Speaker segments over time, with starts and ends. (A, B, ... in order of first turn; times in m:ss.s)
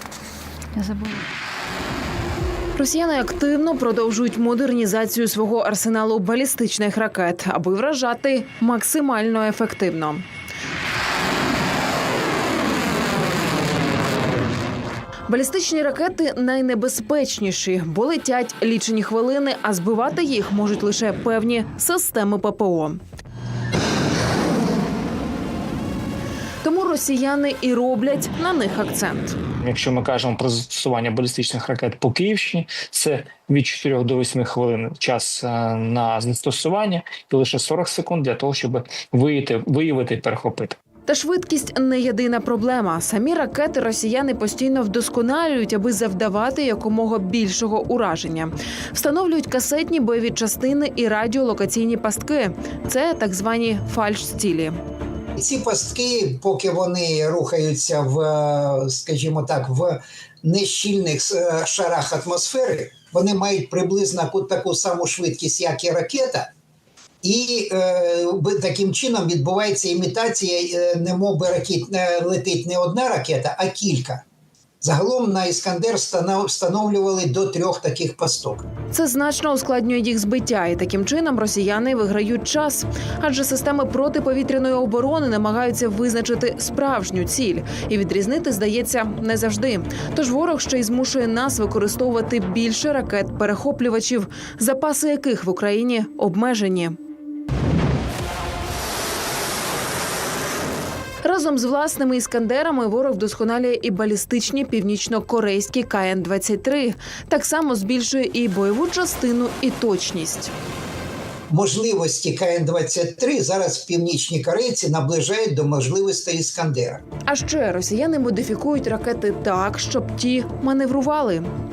0:02.8-0:10.2 A
0:15.3-0:23.0 A
0:26.6-0:29.4 A
0:29.6-0:40.8 B
0:41.1-0:54.8 A
0:55.4-1:06.5 C
1:07.2-1:14.2 C
1:14.8-1:18.7 C
1:18.9-1:37.0 A
1:41.2-1:50.5 A
1:51.5-1:57.0 C
1:57.3-2:01.5 A